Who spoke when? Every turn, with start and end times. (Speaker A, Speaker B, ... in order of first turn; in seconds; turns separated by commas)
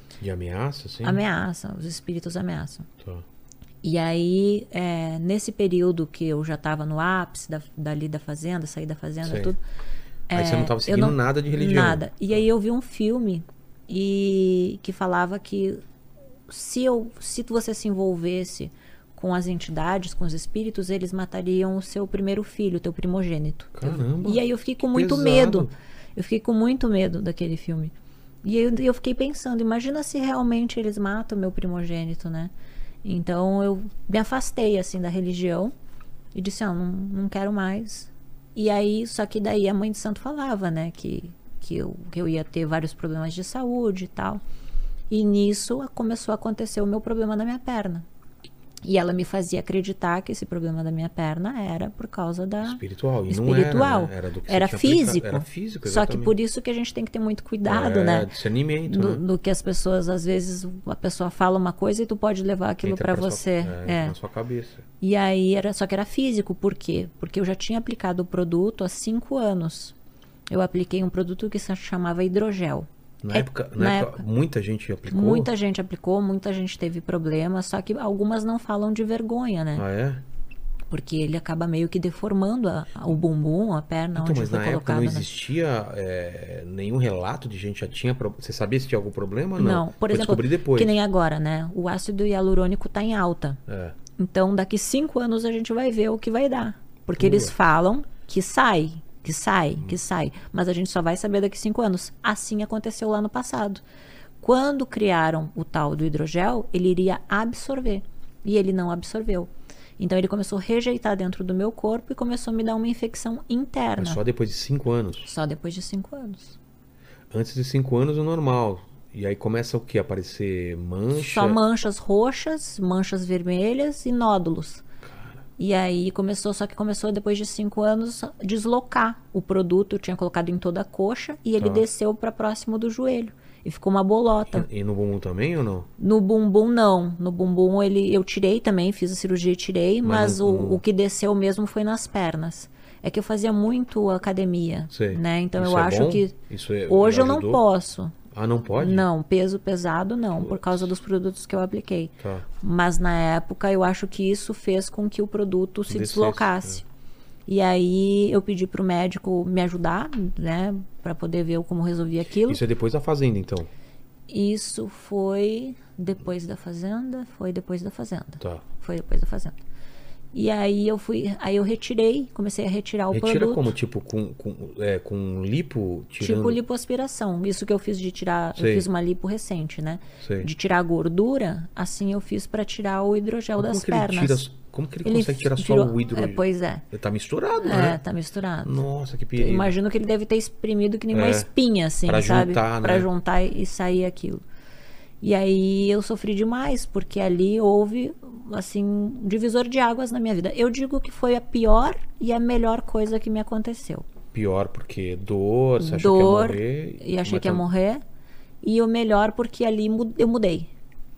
Speaker A: 0.2-1.2, Speaker B: 1.0-2.9, Speaker A: 3.0-3.2, Speaker B: 3.8-9.6, Speaker A: 9.2-9.5, Speaker B: 10.3-15.8, Speaker A: 10.3-12.4, Speaker B: 16.5-27.9, Speaker A: 23.8-25.7, Speaker B: 28.4-32.5, Speaker B: 33.0-35.7, Speaker B: 36.4-44.4, Speaker B: 45.1-48.0, Speaker B: 48.8-58.3, Speaker A: 52.6-56.4, Speaker A: 57.7-59.2, Speaker B: 58.9-64.2, Speaker A: 62.8-64.8, Speaker B: 65.0-70.0, Speaker B: 70.5-74.2, Speaker A: 73.2-75.5, Speaker B: 75.1-79.8, Speaker A: 79.8-80.2, Speaker B: 80.9-85.3, Speaker A: 84.2-91.0, Speaker B: 89.6-93.6, Speaker A: 93.7-94.0, Speaker B: 94.2-103.8, Speaker A: 97.2-97.5, Speaker B: 104.4-114.2, Speaker A: 114.0-115.3, Speaker B: 115.2-116.6, Speaker A: 117.3-121.6, Speaker B: 121.1-124.8, Speaker A: 125.0-125.4, Speaker B: 125.6-134.7, Speaker A: 131.6-131.8, Speaker A: 134.5-135.9, Speaker B: 136.0-146.4, Speaker A: 140.0-140.8, Speaker A: 144.9-147.6, Speaker B: 146.9-148.2, Speaker A: 148.3-149.1, Speaker B: 148.8-156.8, Speaker A: 150.4-150.9, Speaker A: 152.2-152.5, Speaker A: 155.9-156.8, Speaker B: 157.5-162.6, Speaker A: 162.4-163.7, Speaker B: 164.3-169.6, Speaker B: 170.3-173.7, Speaker A: 173.1-176.6, Speaker B: 176.2-184.4, Speaker A: 178.6-178.9, Speaker A: 180.2-180.5, Speaker A: 183.6-188.0, Speaker B: 185.0-186.8, Speaker B: 187.6-188.7, Speaker A: 188.6-189.7, Speaker B: 189.4-194.4, Speaker A: 191.1-191.5, Speaker A: 192.1-193.1, Speaker B: 195.2-204.1, Speaker A: 204.3-207.7, Speaker B: 205.8-208.0, Speaker B: 208.6-210.7